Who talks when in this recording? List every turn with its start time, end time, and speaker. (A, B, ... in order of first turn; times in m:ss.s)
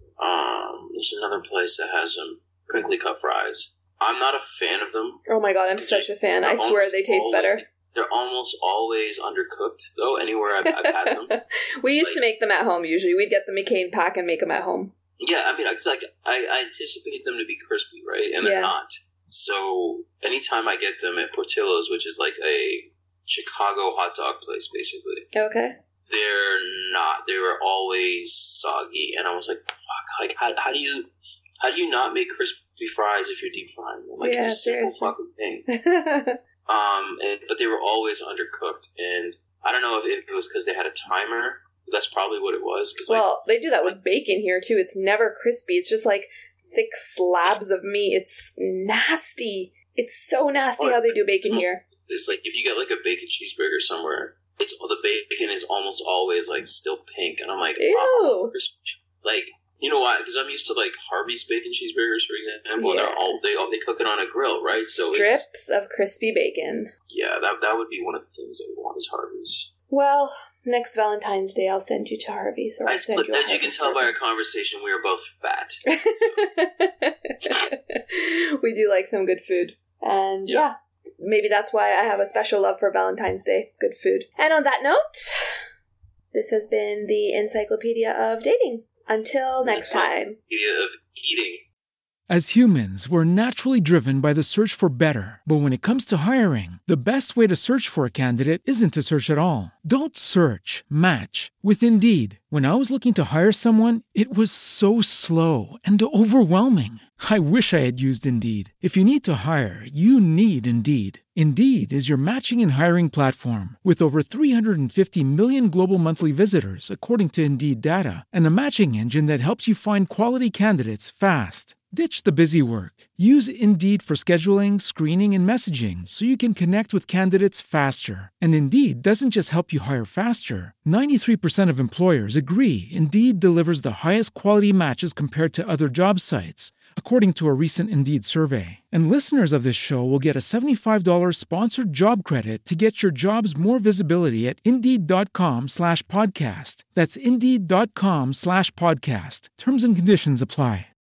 0:00.2-0:05.2 A
0:05.3-0:07.6 B
0:05.8-0:11.4 A
0:10.7-0:14.9 B
0:15.2-0:25.3 A
0:18.4-0:18.7 B
0:25.3-0:25.7 B
0:26.1-0:31.1 A
0:31.6-0:35.7 A
0:34.2-0:35.1 B
0:35.7-0:36.4 B
0:36.7-0:43.3 A
0:43.1-0:51.8 B
0:50.8-1:05.4 A
0:57.8-0:58.5 B
1:02.8-1:03.4 B
1:04.8-1:06.9 B
1:07.1-1:09.7 A
1:09.9-1:14.1 B
1:12.8-1:16.5 A
1:15.9-1:25.4 B
1:26.3-1:30.4 B
1:29.6-1:31.6 A
1:32.3-2:30.9 C